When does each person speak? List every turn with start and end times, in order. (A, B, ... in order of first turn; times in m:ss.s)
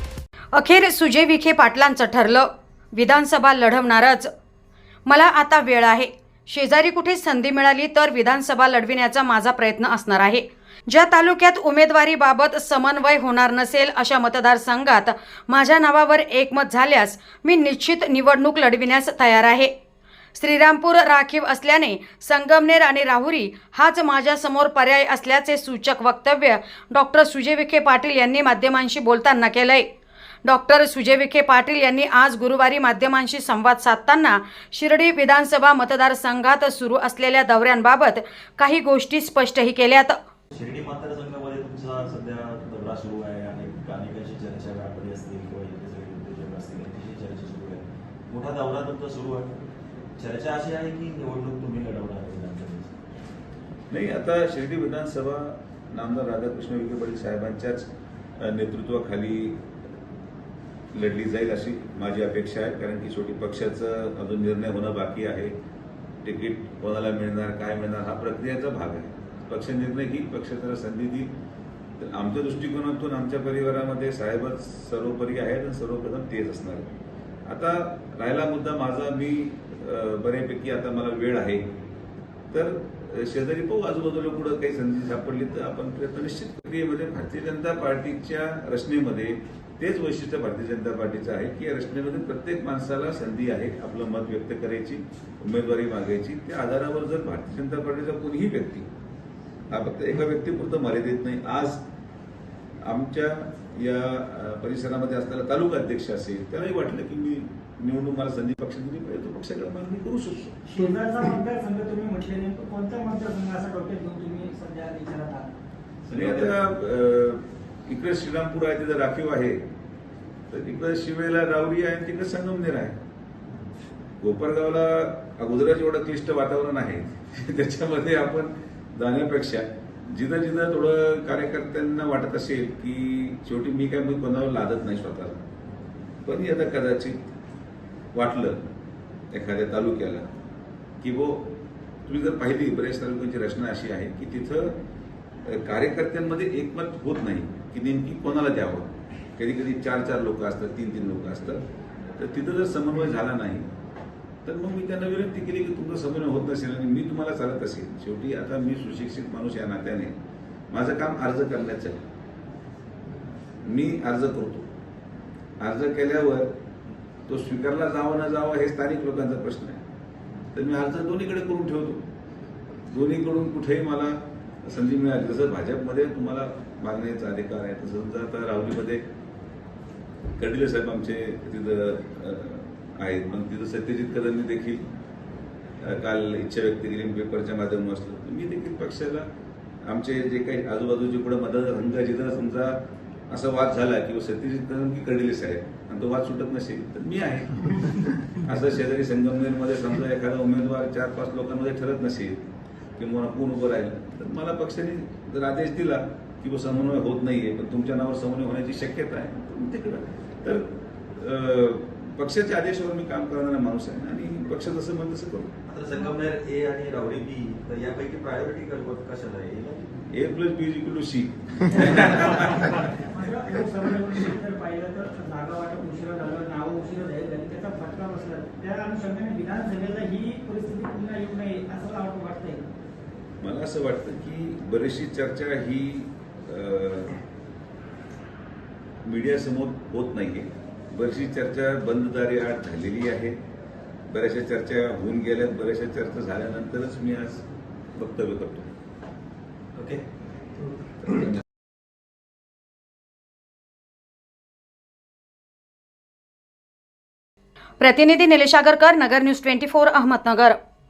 0:00.5-0:04.3 A
0:05.0-0:19.7 A
0:20.3-0:29.9 A
0:30.4-0:40.2 A
0:40.5-0:49.5 B
0:50.2-0:53.0 B
0:53.9-0:57.9 C
0:58.4-0:59.6 C
1:00.9-1:05.5 C
1:06.2-1:11.3 C
1:12.0-1:16.9 C
1:17.5-1:21.7 C
1:22.5-1:38.9 C
1:39.7-1:41.8 C
1:42.8-1:50.5 C
1:50.7-1:55.5 D
1:56.1-1:56.5 B
1:56.1-1:59.6 C
2:00.5-2:03.0 C
2:04.2-2:15.4 C
2:16.2-2:17.2 C
2:18.1-2:18.7 C
2:19.3-2:20.2 C
2:21.0-2:21.5 C
2:22.1-2:24.8 C
2:25.4-2:31.6 C
2:32.2-2:33.7 C
2:34.4-2:40.1 C
2:40.7-2:42.0 C
2:43.6-2:44.7 C
2:45.6-2:46.5 C
2:47.3-2:49.8 C
2:50.5-2:52.0 C
2:52.9-2:59.0 C
3:00.4-3:04.8 C
3:05.8-3:09.3 C
3:09.8-3:12.8 C
3:13.3-3:22.4 C
3:23.0-3:35.5 C
3:35.7-3:40.0 B
3:40.1-3:42.9 C
3:42.9-3:52.7 D
3:53.4-3:57.2 C
3:59.0-4:03.4 C
4:04.1-4:08.7 C
4:09.8-4:10.0 B
4:11.0-4:11.4 C
4:17.8-4:20.6 A